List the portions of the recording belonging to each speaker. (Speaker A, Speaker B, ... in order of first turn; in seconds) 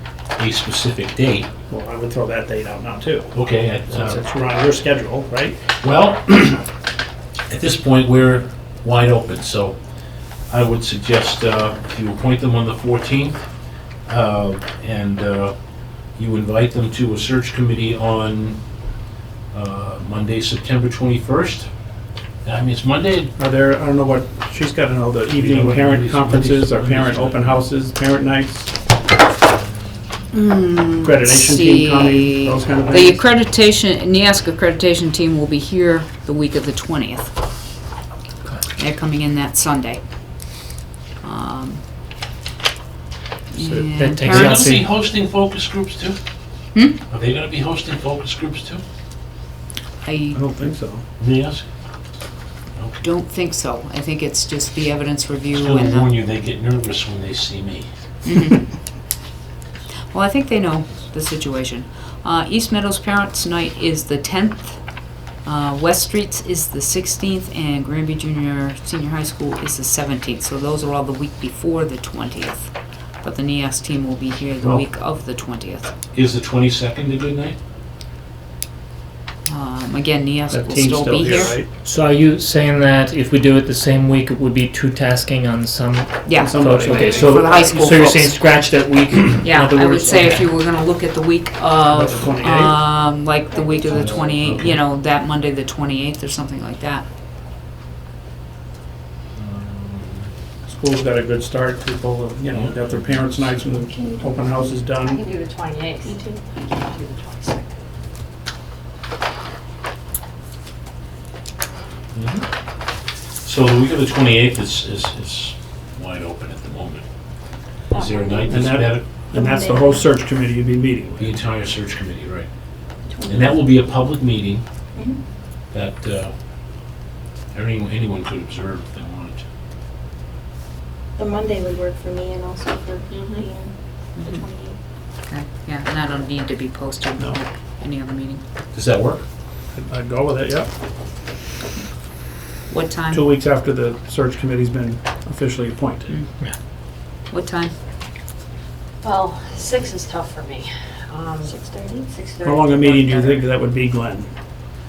Speaker A: 0.4-1.5, 3.3-4.2, 5.8-6.7, 7.5-9.8, 10.5-13.4, 14.1-15.6, 16.2-18.6, 19.5-21.7, 22.4-23.3, 25.3-27.6, 44.3-46.2, 47.1-48.8, 51.2-51.6, 52.8-53.0, 55.5-57.9, 76.1-77.6, 93.8-94.8, 99.4-100.3, 102.5-103.7, 112.1-112.5, 113.4-117.0, 117.9-119.0, 121.2-122.5, 123.3-124.6, 125.7-126.3, 127.5-129.4, 138.7-139.2
Speaker B: 1.7-3.3, 3.9-5.6, 23.4-28.7, 31.0-33.2, 43.6-43.9, 50.3-51.0, 80.5-81.7, 86.4-87.5, 91.9-92.8, 100.7-105.2, 118.5-121.4, 139.8-140.7, 143.1-146.1, 152.4-154.3
Speaker C: 30.3-37.4, 38.8-40.6, 41.2-41.9, 43.5-44.8, 46.8-47.0, 50.0-50.4, 53.0-56.1, 58.2-58.7, 60.1-75.9, 79.5-81.7, 86.3-88.4, 89.4-97.1, 134.2-134.4, 135.3-138.4, 142.7-143.3, 147.3-147.7
Speaker D: 44.0-44.9, 80.7-90.5
Speaker E: 93.5-94.2, 103.9-104.4, 106.0-106.4, 119.3-120.0, 123.1-123.6, 131.2-134.8, 151.4-152.1
Speaker F: 105.0-107.8, 117.9-118.5, 133.1-133.5, 149.0-153.5